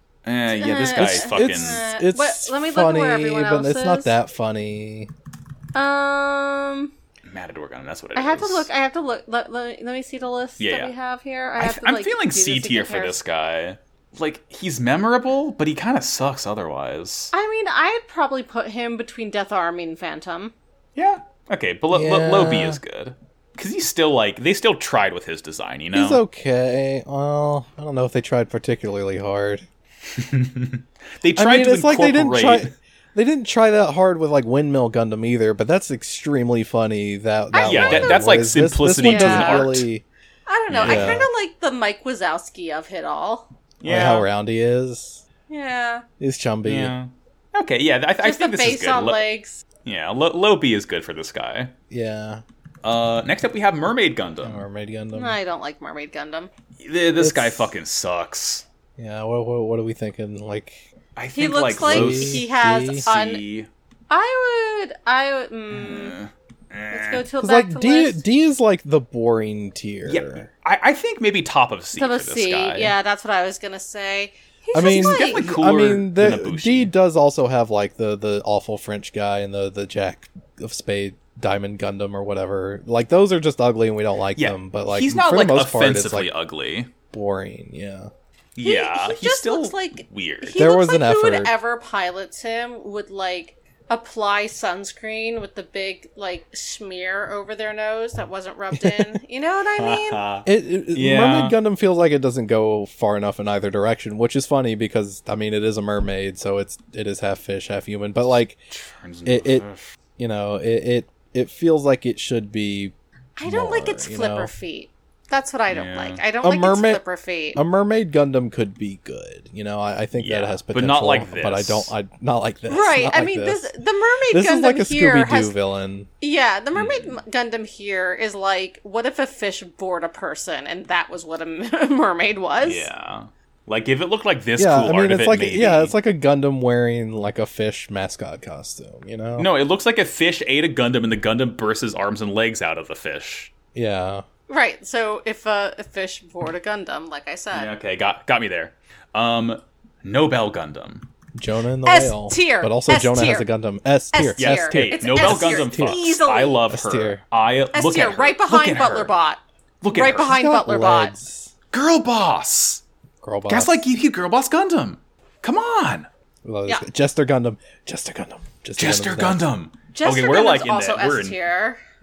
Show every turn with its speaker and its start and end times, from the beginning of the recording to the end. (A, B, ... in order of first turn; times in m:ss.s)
0:00.2-0:01.8 A
0:00.5-0:04.1 B
0:00.9-0:05.1 C
0:05.7-0:06.9 B
0:07.2-0:08.7 A
0:08.1-0:13.2 B
0:10.6-0:10.9 A
0:11.6-0:17.3 A
0:17.3-0:20.5 B
0:21.0-0:26.2 A
0:21.9-0:22.8 C
0:25.9-0:29.6 C
0:30.1-0:32.7 A
0:31.4-0:40.0 C
0:37.5-0:38.4 B
0:37.6-0:39.9 A
0:39.0-0:39.7 B
0:40.5-0:43.5 B
0:40.7-0:41.2 A
0:40.8-0:41.3 C
0:43.8-0:44.2 A
0:43.8-0:45.2 C
0:45.5-0:46.0 B
0:46.2-0:46.9 C
0:46.6-0:49.2 A
0:48.2-0:49.6 B
0:49.8-0:51.7 A
0:51.9-0:52.4 C
0:52.8-0:54.6 A
0:54.4-0:55.4 C
0:55.1-0:56.5 B
0:56.8-0:58.6 A
0:57.2-0:57.7 C
0:59.0-1:00.8 C
1:01.2-1:03.7 A
1:01.3-1:03.4 B
1:01.8-1:03.0 C
1:04.1-1:06.1 B
1:05.7-1:07.2 A
1:06.9-1:08.2 B
1:07.4-1:10.5 C
1:10.0-1:12.9 A
1:12.0-1:15.4 B
1:14.7-1:26.3 C
1:14.8-1:16.9 A
1:24.4-1:26.9 A
1:27.1-1:28.1 C
1:28.6-1:30.6 A
1:28.6-1:40.2 B
1:30.5-1:31.5 C
1:38.8-1:39.2 C
1:39.8-1:41.6 A
1:40.4-1:48.6 C
1:48.7-1:49.8 A
1:49.2-1:49.6 C
1:50.2-1:54.5 C
1:53.4-1:57.6 B
1:55.7-1:56.2 A
1:56.4-1:57.0 C
1:57.6-2:03.6 C
2:00.2-2:01.9 A
2:02.7-2:05.5 B
2:04.3-2:06.1 C
2:06.2-2:12.9 B
2:06.7-2:07.2 A
2:12.6-2:15.9 A
2:14.6-2:19.5 C
2:19.4-2:23.5 A
2:23.7-2:24.2 C
2:24.5-2:27.7 B
2:27.5-2:31.1 A
2:31.3-2:36.0 C
2:31.8-2:33.5 B
2:34.1-2:36.6 B
2:34.4-2:39.1 A
2:36.7-2:37.2 C
2:37.7-2:39.4 B
2:39.8-2:40.4 A
2:39.9-2:41.1 B
2:40.2-2:41.5 C
2:41.7-2:42.8 A
2:43.2-2:43.8 C
2:43.5-2:46.1 A
2:46.4-2:49.4 C
2:48.8-2:51.4 A
2:49.9-2:51.8 B